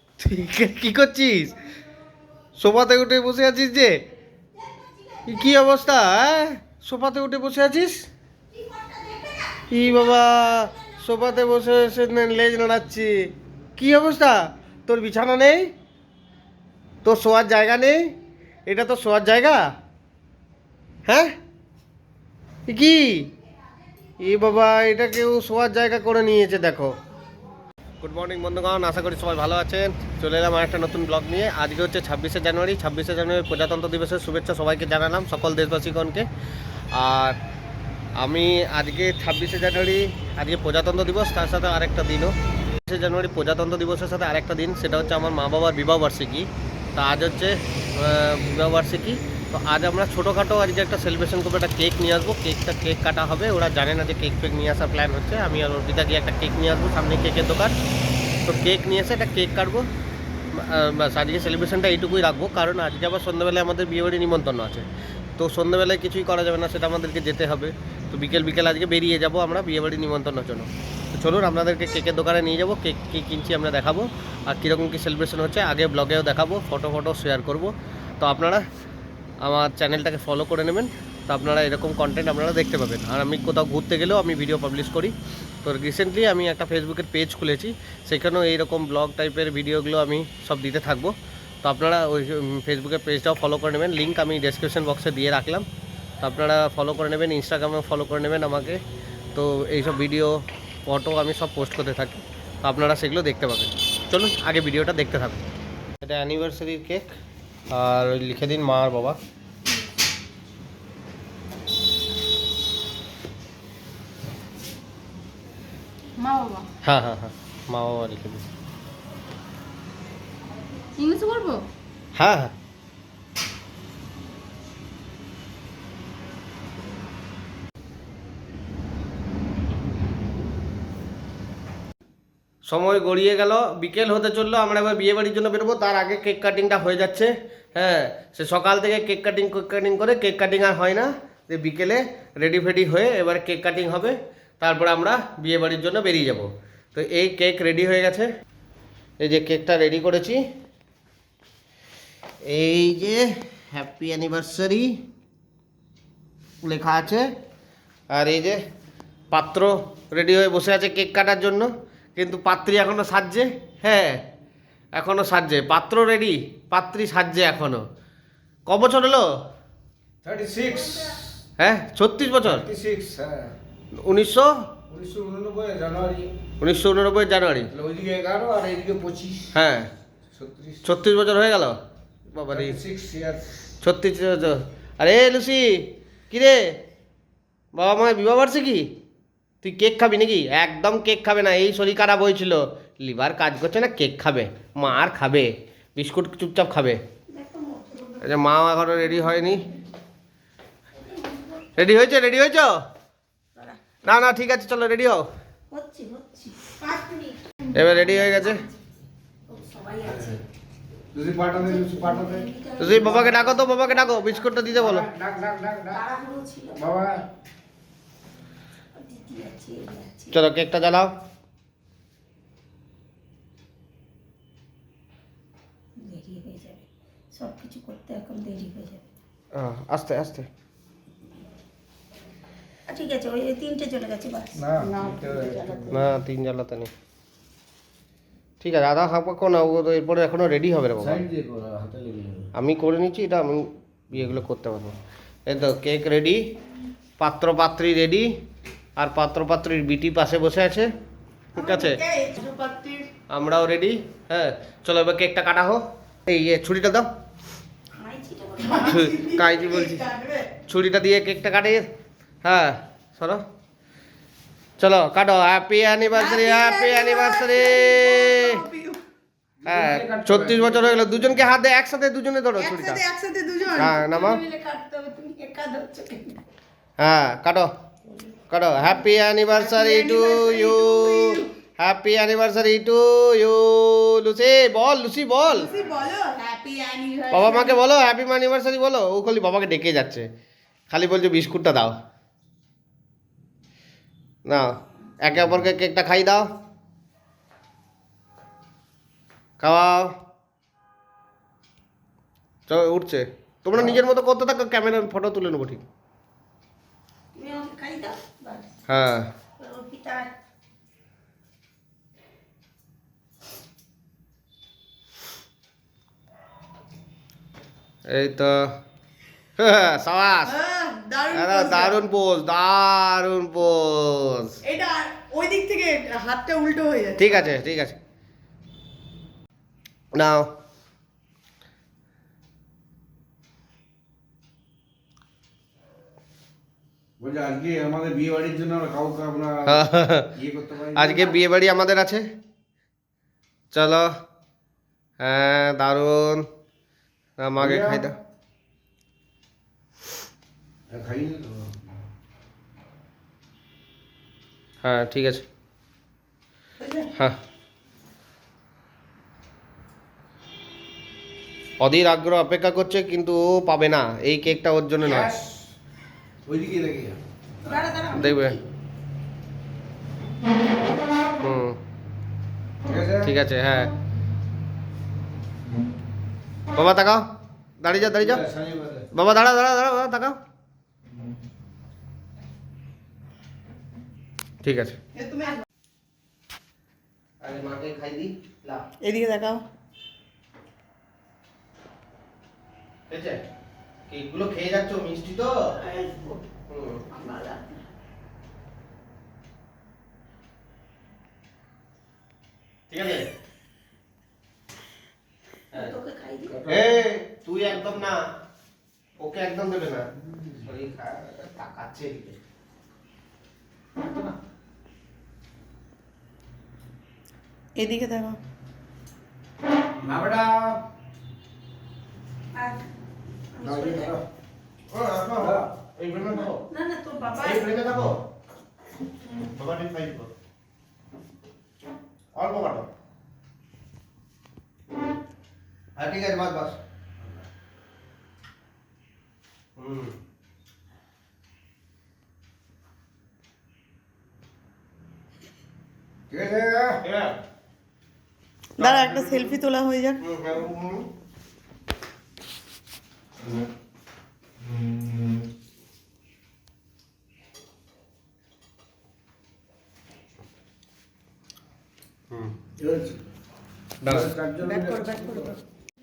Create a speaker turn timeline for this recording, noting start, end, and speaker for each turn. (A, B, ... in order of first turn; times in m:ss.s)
0:00.2-0:01.6 A
0:02.6-0:04.0 A
0:05.2-0:08.1 A
0:08.6-0:09.6 B
0:09.7-0:15.7 A
0:17.0-0:18.1 A
0:18.7-0:19.6 A
0:21.1-0:21.3 A
0:22.7-0:23.3 A
0:24.2-0:26.9 A
0:28.0-0:36.3 A
0:36.9-0:37.4 A
0:38.2-0:42.3 A
0:42.9-0:57.7 A
0:58.4-0:59.9 A
1:00.5-1:04.9 A
1:05.4-1:18.6 A
1:19.4-1:35.7 A
1:36.2-1:38.8 A
1:39.4-1:45.4 A
1:46.0-1:47.0 A
1:47.7-1:49.2 A
1:56.2-1:56.7 C
1:56.8-1:58.5 A
2:01.0-2:01.7 C
2:02.1-2:02.5 A
2:12.7-2:28.3 A
2:29.2-2:30.4 A
2:32.5-2:34.9 A
2:36.6-2:37.2 A
2:38.1-2:38.6 A
2:39.3-2:44.2 A
2:45.0-2:47.8 A
2:48.7-2:49.3 A
2:50.2-2:51.2 D
2:50.7-2:51.1 B
2:51.6-2:52.7 A
2:52.4-2:53.6 D
2:54.0-2:54.5 A
2:54.9-2:56.3 D
2:56.6-2:57.7 A
2:57.8-2:59.5 D
2:59.5-2:59.9 A
3:00.3-3:00.9 D
3:00.8-3:01.8 A
3:02.3-3:02.8 A
3:02.5-3:03.5 D
3:03.8-3:06.7 A
3:07.7-3:08.9 A
3:09.6-3:17.0 A
3:17.3-3:18.4 B
3:18.2-3:19.6 A
3:21.0-3:21.7 B
3:21.8-3:22.8 A
3:23.6-3:23.9 B
3:24.0-3:25.3 A
3:25.7-3:28.6 B
3:27.7-3:28.6 A
3:29.5-3:30.4 B
3:30.1-3:30.4 D
3:31.1-3:33.4 D
3:31.5-3:34.8 B
3:32.8-3:35.1 A
3:34.7-3:36.0 D
3:35.9-3:37.0 B
3:36.8-3:37.2 D
3:39.0-3:40.4 B
3:40.3-3:41.1 A
3:46.0-3:49.0 B
3:49.5-3:50.5 A
3:52.9-3:56.0 B
3:54.6-3:56.0 D
3:55.9-3:56.9 A
3:58.6-4:01.2 A
4:01.0-4:02.5 D
4:02.5-4:05.0 A
4:05.5-4:06.4 A
4:07.2-4:08.3 A
4:09.0-4:10.9 A
4:11.6-4:12.0 A
4:11.6-4:13.1 B
4:12.4-4:12.9 C
4:13.3-4:17.1 A
4:18.0-4:20.4 B
4:18.8-4:20.1 A
4:19.0-4:20.0 C
4:20.6-4:21.8 A
4:22.4-4:23.4 A
4:24.8-4:28.6 A
4:26.2-4:28.0 B
4:27.5-4:28.9 C
4:28.6-4:29.0 B
4:29.6-4:31.5 D
4:29.6-4:33.0 A
4:32.6-4:36.4 B
4:33.7-4:34.4 A
4:37.0-4:37.7 A
4:38.5-4:45.8 A
4:39.6-4:41.4 C
4:45.6-4:47.8 B
4:47.3-4:50.3 A
4:50.9-4:51.9 A
4:55.2-4:56.5 A
4:59.6-5:00.1 A
5:02.7-5:05.8 A
5:07.3-5:08.7 B
5:08.9-5:09.3 A
5:09.6-5:10.3 B
5:18.1-5:18.7 A
5:19.6-5:20.6 A
5:20.5-5:22.0 C
5:21.3-5:24.6 A
5:24.7-5:27.3 C
5:27.2-5:28.0 A
5:30.1-5:30.5 A
5:37.2-5:41.3 D
5:39.7-5:40.3 A
5:40.9-5:42.2 A
5:43.7-5:44.1 A
5:45.2-5:46.4 A
5:47.4-5:48.2 A
5:47.6-5:48.1 D
5:50.9-5:51.8 D
5:54.8-5:55.4 A
6:01.8-6:05.4 A
6:05.0-6:05.7 D
6:06.5-6:07.2 D
6:07.6-6:08.6 B
6:08.1-6:08.6 A
6:11.4-6:11.8 A
6:12.9-6:13.4 D
6:13.2-6:13.9 A
6:16.7-6:17.2 A
6:17.8-6:18.4 A
6:17.9-6:19.1 D
6:19.1-6:20.4 A
6:24.6-6:25.0 A
6:27.4-6:28.8 A
6:29.0-6:29.6 C
6:33.1-6:33.4 A
6:34.1-6:35.6 A
6:35.8-6:36.4 B
6:36.7-6:37.0 A
6:37.1-6:37.8 B
6:42.9-6:43.3 A
6:45.7-6:46.7 B
6:46.5-6:47.1 D
6:46.7-6:48.3 A
6:47.6-6:48.1 D
6:49.2-6:52.4 A
6:57.8-6:58.4 C
7:00.0-7:00.8 D
7:02.5-7:02.8 B
7:03.5-7:04.1 B
7:03.6-7:04.2 D
7:04.9-7:06.6 A
7:05.4-7:05.7 D
7:06.7-7:07.8 B
7:07.4-7:08.2 A
7:09.5-7:10.3 A
7:12.4-7:12.9 A
7:16.0-7:16.8 A
7:19.8-7:20.1 A
7:26.3-7:27.0 D
7:27.0-7:27.4 A
7:28.8-7:30.2 C
7:28.8-7:29.6 A
7:30.2-7:31.1 A
7:42.8-7:43.2 D
7:44.0-7:44.3 A
7:44.0-7:45.5 D
7:44.6-7:45.6 B